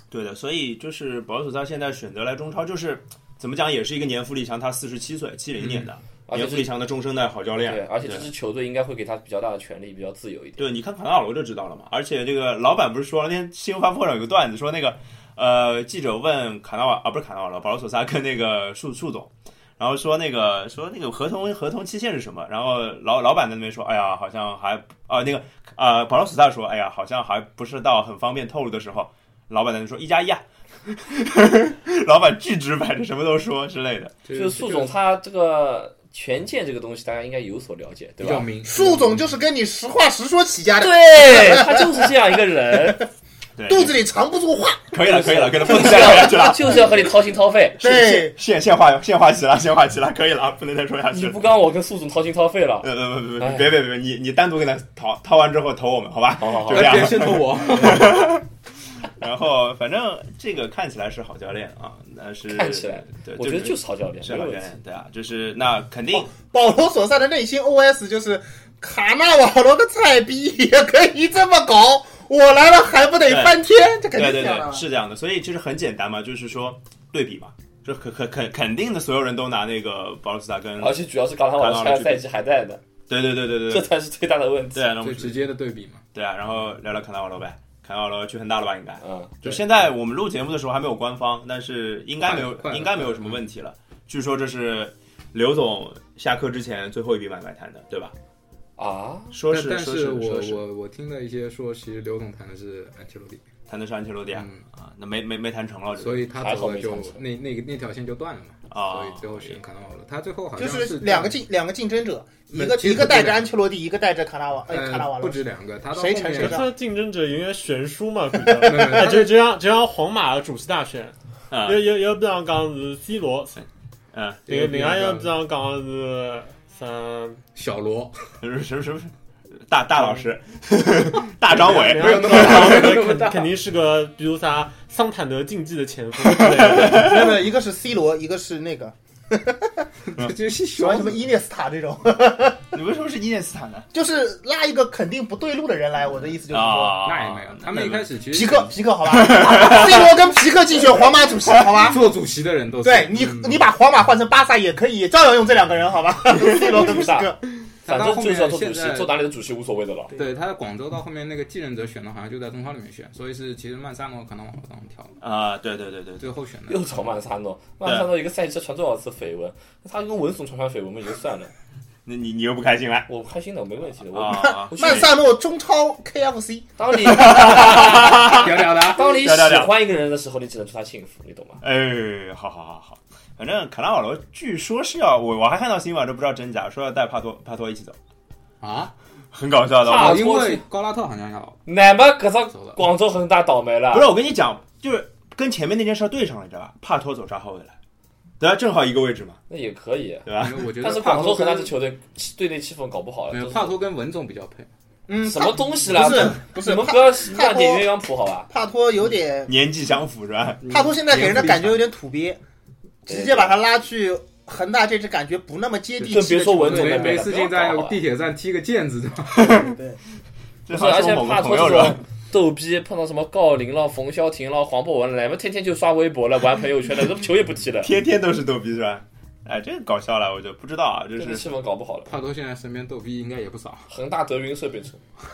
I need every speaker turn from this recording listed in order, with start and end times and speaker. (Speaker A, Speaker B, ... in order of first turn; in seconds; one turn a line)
Speaker A: 0.1-8.3
Speaker B: 5.6-5.9
Speaker C: 6.3-6.7
Speaker C: 7.7-10.7
Speaker A: 10.6-34.2
Speaker B: 34.2-35.0
Speaker C: 34.3-38.5
Speaker B: 38.2-39.2
Speaker D: 38.6-41.9
Speaker C: 40.8-43.1
Speaker A: 43.6-44.0
Speaker D: 43.7-44.9
Speaker A: 44.9-47.1
Speaker C: 45.0-47.8
Speaker D: 47.8-48.4
Speaker A: 47.8-51.5
Speaker C: 51.1-52.9
Speaker A: 52.8-58.5
Speaker C: 53.4-53.7
Speaker C: 56.4-57.2
Speaker B: 56.7-58.3
Speaker A: 59.1-66.3
Speaker C: 62.5-64.7
Speaker D: 66.3-74.9
Speaker A: 73.3-73.6
Speaker A: 74.1-81.0
Speaker C: 80.8-82.8
Speaker A: 81.6-82.2
Speaker A: 83.1-83.9
Speaker C: 83.7-84.9
Speaker A: 84.8-85.4
Speaker B: 85.0-86.0
Speaker A: 86.1-98.2
Speaker C: 89.0-89.3
Speaker B: 92.2-93.4
Speaker C: 98.8-99.3
Speaker A: 99.3-100.6
Speaker B: 99.5-103.5
Speaker A: 103.7-106.3
Speaker B: 104.3-104.6
Speaker B: 106.0-111.4
Speaker C: 106.3-107.2
Speaker A: 108.7-109.6
Speaker D: 110.6-116.7
Speaker B: 112.5-113.5
Speaker B: 114.7-116.7
Speaker E: 116.4-123.5
Speaker D: 118.5-119.3
Speaker B: 118.6-119.3
Speaker A: 121.5-121.9
Speaker A: 124.1-124.4
Speaker B: 124.5-125.3
Speaker E: 124.5-127.4
Speaker B: 127.5-128.3
Speaker A: 128.4-129.1
Speaker A: 129.7-133.0
Speaker E: 130.0-130.3
Speaker E: 131.5-137.2
Speaker B: 131.5-133.5
Speaker A: 136.3-137.2
Speaker D: 136.7-139.9
Speaker B: 140.1-141.2
Speaker D: 140.8-142.6
Speaker A: 142.7-143.9
Speaker D: 143.9-147.0
Speaker A: 146.5-148.1
Speaker B: 147.0-148.7
Speaker D: 148.3-152.0
Speaker A: 149.1-150.1
Speaker B: 151.9-153.7
Speaker D: 152.8-157.4
Speaker C: 156.7-157.3
Speaker B: 157.9-159.2
Speaker C: 157.9-160.2
Speaker B: 160.2-165.2
Speaker A: 165.2-166.3
Speaker B: 166.2-167.0
Speaker C: 166.7-171.5
Speaker A: 167.8-168.1
Speaker A: 172.1-173.1
Speaker C: 173.1-175.1
Speaker A: 174.1-175.1
Speaker D: 174.4-177.2
Speaker C: 176.8-181.6
Speaker A: 177.0-179.7
Speaker B: 178.3-179.1
Speaker A: 181.6-188.0
Speaker B: 188.6-188.9
Speaker A: 189.3-190.2
Speaker C: 189.8-190.6
Speaker B: 189.9-191.6
Speaker C: 191.7-194.1
Speaker B: 192.5-192.8
Speaker A: 193.9-197.8
Speaker A: 198.4-199.4
Speaker C: 199.5-200.3
Speaker A: 200.3-200.7
Speaker B: 200.4-201.7
Speaker C: 200.8-203.8
Speaker B: 203.3-204.7
Speaker D: 205.1-207.9
Speaker C: 205.2-208.5
Speaker D: 208.5-209.5
Speaker A: 209.5-210.7
Speaker B: 210.7-211.8
Speaker D: 210.7-212.4
Speaker D: 213.1-216.8
Speaker C: 213.1-213.5
Speaker B: 216.0-219.6
Speaker C: 216.1-218.0
Speaker D: 219.5-220.0
Speaker A: 220.7-222.0
Speaker C: 220.7-227.9
Speaker A: 227.8-231.6
Speaker C: 231.2-232.1
Speaker B: 232.1-233.9
Speaker C: 233.9-235.0